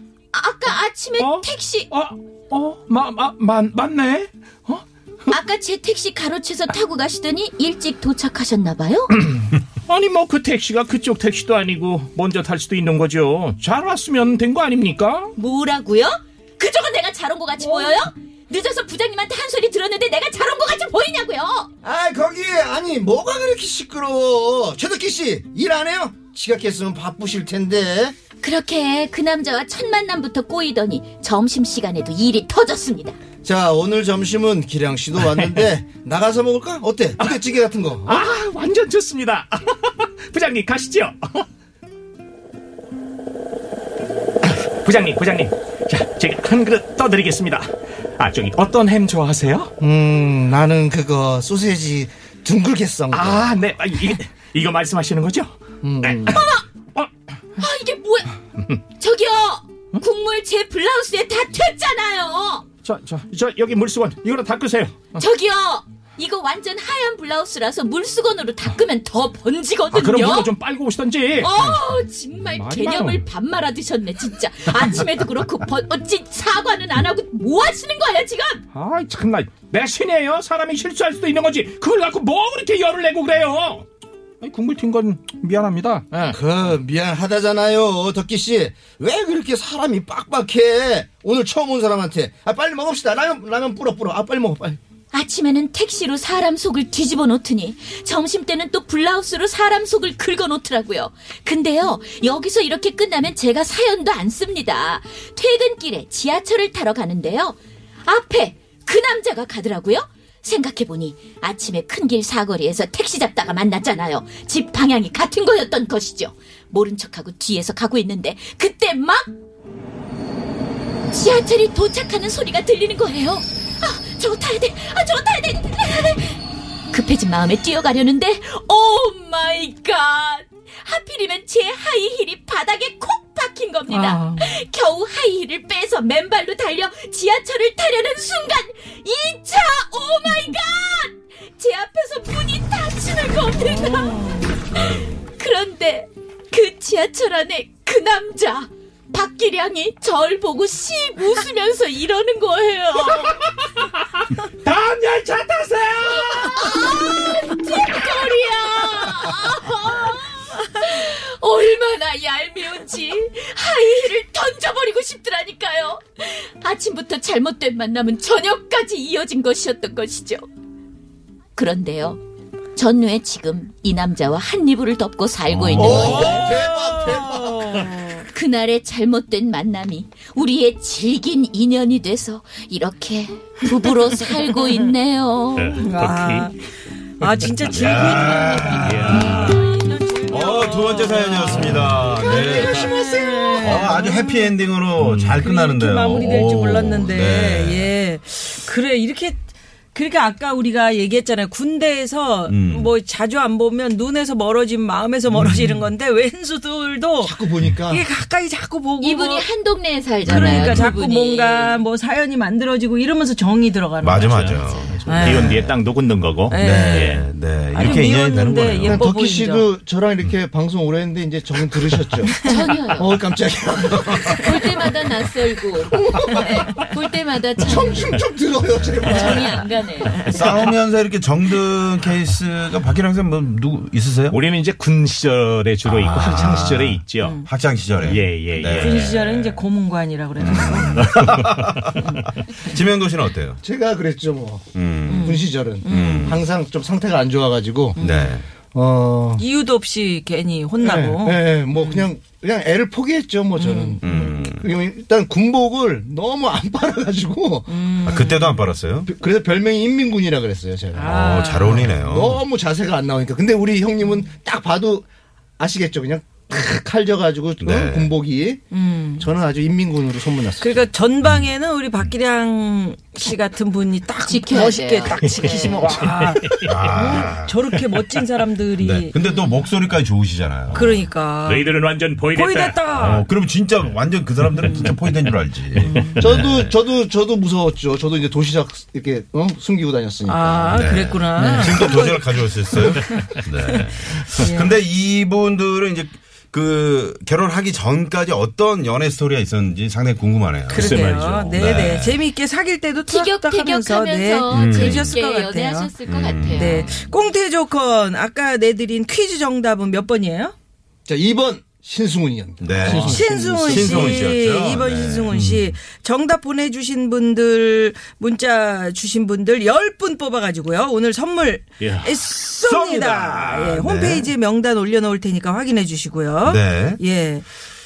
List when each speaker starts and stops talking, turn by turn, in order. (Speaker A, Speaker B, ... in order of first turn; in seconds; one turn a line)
Speaker A: 0.3-1.9
Speaker B: 1.1-5.3
Speaker A: 5.3-9.2
Speaker B: 9.2-15.3
Speaker A: 15.3-21.7
Speaker C: 21.8-28.1
Speaker A: 28.4-33.2
Speaker C: 33.4-38.2
Speaker B: 35.1-35.7
Speaker B: 37.2-37.4
Speaker B: 38.0-41.5
Speaker B: 44.4-49.7
Speaker C: 49.8-53.6
Speaker B: 53.1-56.4
Speaker C: 55.8-56.5
Speaker A: 56.3-56.6
Speaker A: 57.6-58.4
Speaker A: 59.0-62.6
Speaker B: 62.8-65.2
Speaker A: 65.2-70.5
Speaker B: 69.9-71.8
Speaker A: 71.4-78.6
Speaker B: 72.4-73.2
Speaker B: 78.7-83.8
Speaker B: 84.4-86.4
Speaker C: 86.3-94.8
Speaker A: 95.1-119.3
Speaker A: 121.1-126.4
Speaker A: 126.9-153.5
Speaker D: 133.9-134.6
Speaker D: 143.6-144.5
Speaker E: 144.7-145.1
Speaker B: 154.6-156.7
Speaker A: 156.3-170.4
Speaker A: 171.6-172.2
Speaker A: 172.8-176.5
Speaker E: 175.5-176.2
Speaker C: 175.7-177.8
Speaker D: 175.8-178.3
Speaker A: 178.3-185.8
Speaker D: 184.2-184.6
Speaker B: 185.6-186.5
Speaker D: 185.8-186.6
Speaker D: 187.2-194.5
Speaker E: 187.7-189.5
Speaker B: 188.8-189.6
Speaker E: 190.3-192.9
Speaker C: 192.3-193.5
Speaker E: 193.5-197.9
Speaker B: 195.0-195.3
Speaker D: 195.4-199.4
Speaker D: 199.9-209.5
Speaker E: 202.5-202.9
Speaker E: 205.3-205.7
Speaker C: 207.2-208.1
Speaker A: 209.0-211.8
Speaker D: 210.2-214.5
Speaker E: 210.3-210.9
Speaker E: 214.0-215.7
Speaker B: 214.2-217.2
Speaker A: 214.5-214.9
Speaker D: 215.0-215.7
Speaker D: 216.5-219.7
Speaker E: 216.5-219.0
Speaker C: 218.8-224.9
Speaker A: 222.3-223.2
Speaker A: 224.3-228.2
Speaker C: 225.7-226.8
Speaker C: 227.6-229.7
Speaker A: 229.0-230.5
Speaker E: 230.1-234.4
Speaker D: 230.2-230.5
Speaker B: 234.3-237.4
Speaker E: 235.8-239.5
Speaker D: 237.2-237.5
Speaker B: 238.0-239.2
Speaker D: 238.8-241.3
Speaker E: 240.4-243.6
Speaker C: 243.6-248.0
Speaker E: 244.7-245.3
Speaker D: 245.1-246.4
Speaker E: 245.8-246.4
Speaker D: 247.9-248.4
Speaker E: 248.0-248.5
Speaker C: 248.7-249.4
Speaker D: 249.4-252.0
Speaker C: 250.8-257.9
Speaker D: 253.6-254.0
Speaker E: 254.0-254.7
Speaker D: 257.7-258.6
Speaker E: 258.0-259.1
Speaker C: 259.1-261.4
Speaker D: 260.9-262.0
Speaker E: 261.1-262.4
Speaker C: 262.0-265.1
Speaker C: 265.6-268.6
Speaker E: 267.6-268.1
Speaker D: 268.7-269.3
Speaker C: 269.2-270.8
Speaker D: 270.6-279.1
Speaker A: 274.3-275.9
Speaker B: 275.9-277.1
Speaker E: 276.6-277.6
Speaker E: 278.8-281.1
Speaker D: 280.7-281.8
Speaker B: 281.4-283.2
Speaker D: 282.3-283.3
Speaker E: 282.9-286.8
Speaker D: 285.8-286.2
Speaker C: 286.2-290.8
Speaker D: 290.2-293.3
Speaker E: 290.7-302.2
Speaker B: 291.4-291.7
Speaker D: 294.4-294.8
Speaker D: 300.7-305.9
Speaker B: 300.7-301.7
Speaker A: 303.1-306.9
Speaker E: 304.5-305.1
Speaker E: 306.1-307.1
Speaker D: 306.5-310.5
Speaker C: 311.1-314.3
Speaker E: 312.6-315.7
Speaker D: 312.8-327.4
Speaker B: 321.8-322.9
Speaker E: 322.7-324.3
Speaker E: 326.4-327.0